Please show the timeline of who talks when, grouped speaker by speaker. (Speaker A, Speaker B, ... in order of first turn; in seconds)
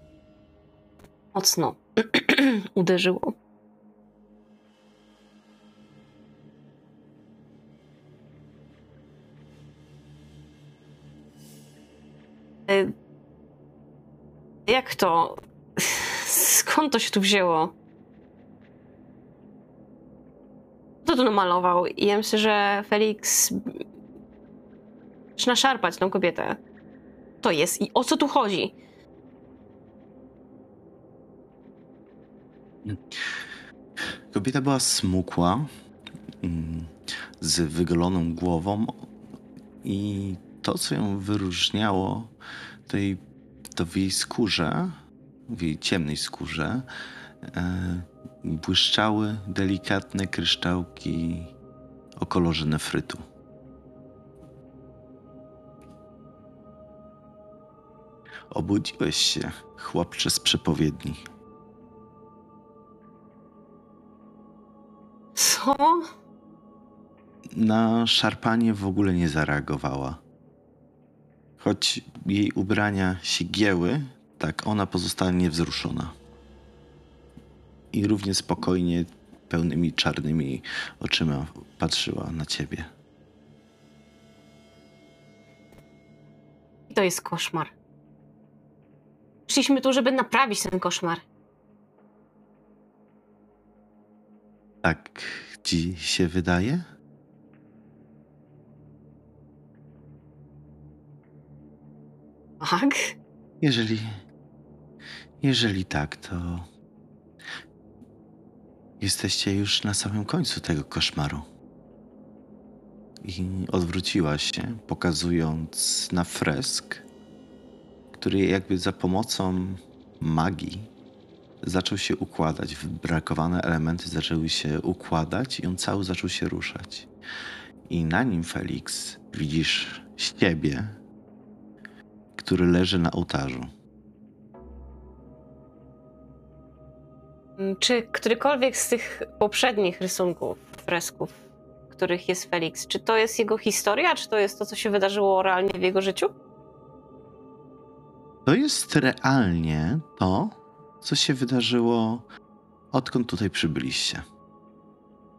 Speaker A: 1.3-3.3, 12.7-12.9, 14.7-17.7, 21.0-23.8, 25.4-26.6, 27.4-28.7, 65.3-66.0, 86.9-87.7, 89.5-91.2, 102.6-103.1, 137.6-141.3, 141.9-146.3
Speaker B: 32.8-33.2, 34.3-35.7, 36.4-39.0, 39.8-42.3, 42.9-43.2, 43.7-45.0, 45.5-46.9, 47.4-51.5, 52.2-53.2, 58.5-61.2, 67.5-70.2, 71.6-76.1, 77.9-82.9, 94.8-96.9, 103.6-104.2, 105.4-106.7, 109.0-111.5, 113.2-117.0, 118.1-120.9, 121.6-127.1, 127.9-131.0, 132.3-133.7, 148.4-152.3, 152.9-154.2